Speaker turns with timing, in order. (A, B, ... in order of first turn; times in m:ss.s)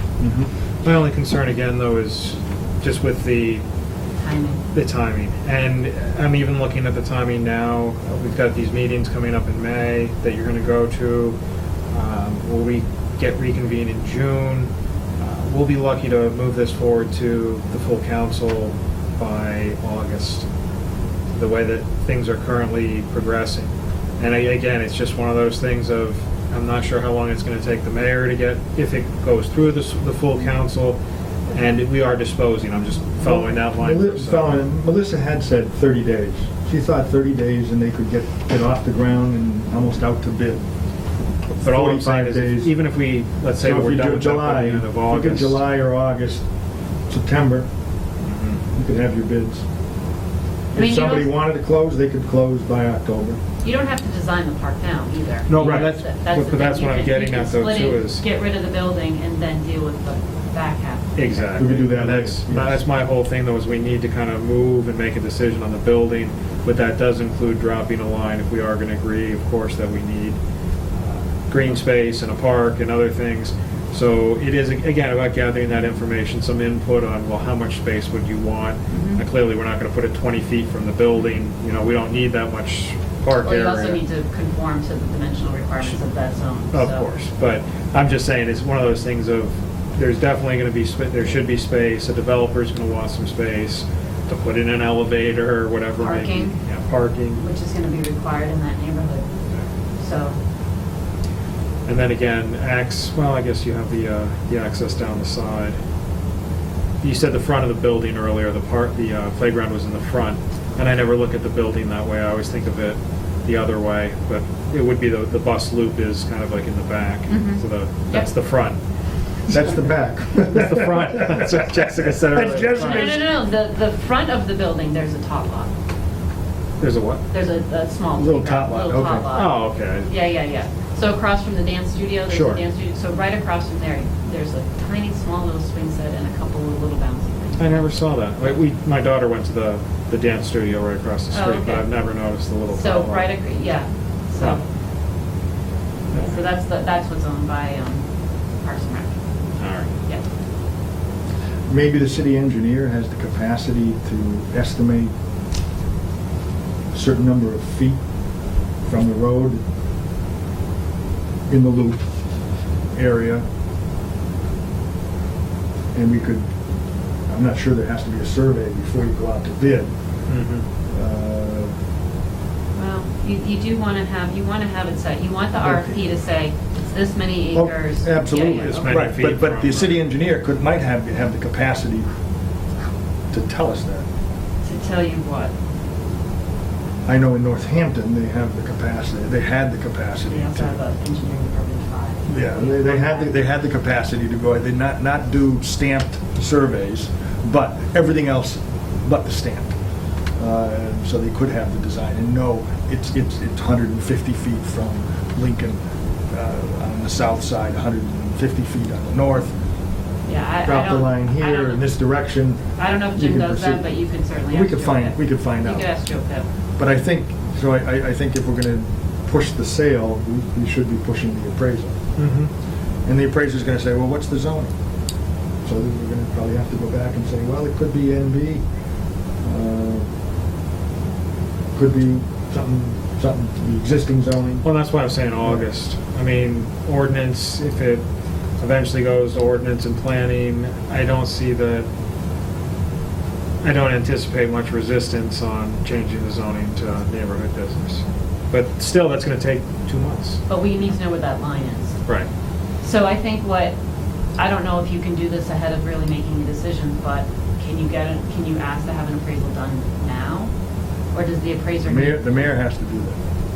0:00.2-0:00.5 A
0:00.8-0:03.6 B
0:04.2-0:04.6 C
0:04.7-0:11.4 B
0:11.9-0:20.4 B
0:21.3-0:31.0 B
0:31.5-0:34.6 B
0:33.2-0:40.6 A
0:41.6-0:45.6 B
0:41.6-0:42.7 A
0:43.6-0:46.4 A
0:47.1-0:47.7 A
0:48.2-0:48.6 B
0:48.7-0:49.6 A
0:50.7-0:51.3 C
0:50.7-0:53.4 A
0:53.6-1:01.7 C
0:55.5-0:58.2 B
0:55.5-0:55.9 A
1:01.2-1:10.4 B
1:01.6-1:02.8 A
1:10.9-1:24.0 B
1:18.9-1:19.2 C
1:23.4-1:27.1 C
1:26.7-1:37.4 B
1:36.0-1:36.6 C
1:37.3-1:39.3 C
1:40.0-1:40.4 C
1:41.8-1:45.8 B
1:47.0-1:58.8 B
1:57.3-1:58.3 C
1:59.5-2:01.6 A
2:00.5-2:03.2 B
2:02.2-2:03.3 A
2:02.8-2:05.7 C
2:06.8-2:07.2 B
2:07.3-2:17.8 C
2:08.2-2:09.3 A
2:09.3-2:10.1 B
2:12.3-2:12.6 B
2:17.6-2:23.3 B
2:21.3-2:21.9 C
2:22.7-2:24.6 C
2:26.1-2:28.0 C
2:26.1-2:26.4 B
2:28.6-2:29.2 C
2:29.6-2:29.9 B
2:31.7-2:35.1 A
2:36.9-2:38.0 A
2:38.8-2:39.6 A
2:41.5-2:42.0 A
2:42.9-2:43.4 A
2:45.9-2:46.4 A
2:47.3-2:49.9 A
2:50.3-2:50.6 B
2:50.9-2:51.7 A
2:52.8-2:58.9 C
2:55.6-2:55.9 A
2:57.5-3:02.1 A
2:58.3-3:00.0 B
3:03.3-3:04.0 A
3:04.6-3:05.5 C
3:07.0-3:10.8 A
3:10.3-3:13.3 C
3:12.3-3:19.7 A
3:20.4-3:25.8 A
3:26.3-3:29.5 A
3:30.2-3:31.8 C
3:30.6-3:32.6 A
3:32.8-3:36.4 C
3:33.2-3:33.8 A
3:34.5-3:35.9 A
3:36.8-3:42.0 A
3:42.2-3:42.5 B
3:43.0-3:44.7 A
3:45.6-3:48.6 A
3:49.4-3:50.0 A
3:51.7-3:54.6 A
3:54.6-3:58.0 B
3:58.6-4:01.9 B
4:03.6-4:10.4 B
4:10.5-4:12.0 C
4:12.8-4:13.7 C
4:14.4-4:20.5 C
4:21.1-4:22.2 C
4:21.8-4:23.2 A